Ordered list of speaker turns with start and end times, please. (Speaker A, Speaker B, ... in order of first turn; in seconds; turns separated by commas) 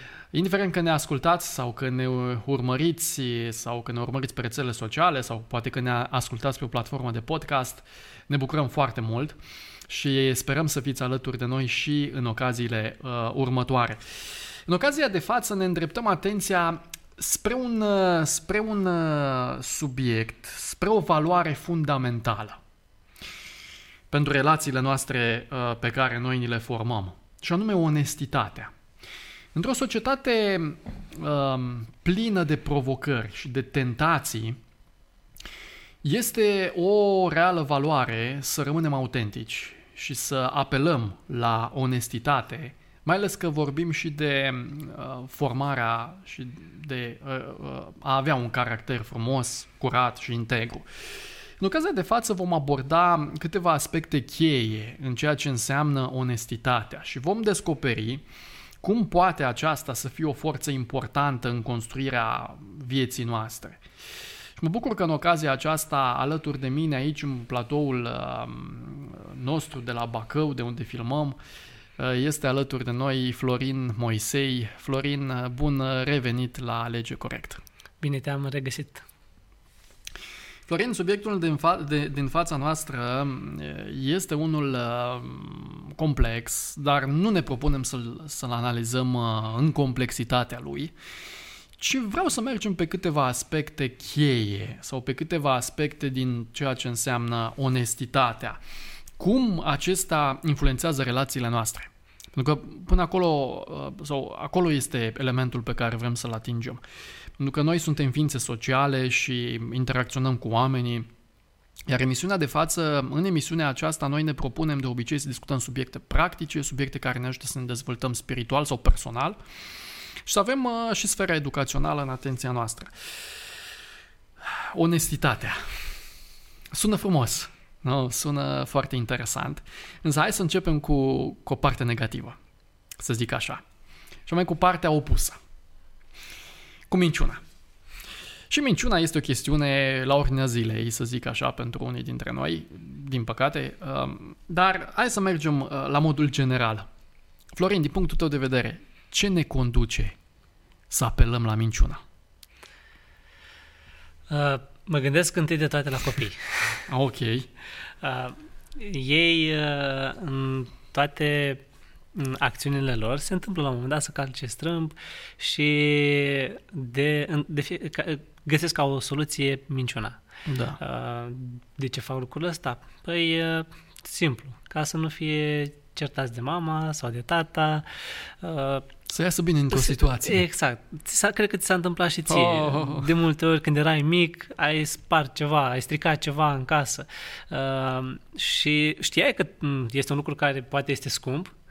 Speaker A: 0.3-9.4, Speaker A: 9.9-22.6, Speaker A: 24.1-28.7, Speaker A: 29.5-34.6, Speaker A: 36.0-50.9, Speaker A: 51.6-58.2, Speaker A: 58.8-63.8, Speaker A: 64.6-71.4, Speaker A: 72.0-77.6, Speaker B: 78.0-79.0, Speaker A: 80.7-90.9, Speaker A: 91.8-98.6, Speaker A: 99.2-106.8, Speaker A: 107.4-111.1, Speaker A: 111.9-119.4, Speaker A: 120.2-123.1, Speaker A: 124.4-125.9, Speaker A: 126.7-132.4, Speaker A: 133.0-133.6, Speaker A: 134.3-135.4, Speaker A: 136.9-137.4, Speaker A: 138.5-146.9, Speaker A: 147.5-150.2, Speaker A: 150.9-152.0, Speaker B: 154.3-156.8, Speaker A: 156.9-157.5, Speaker B: 158.0-161.6, Speaker B: 162.1-170.2, Speaker A: 170.4-170.8, Speaker B: 170.8-178.9, Speaker A: 179.1-180.4, Speaker B: 179.7-191.5, Speaker A: 182.3-183.1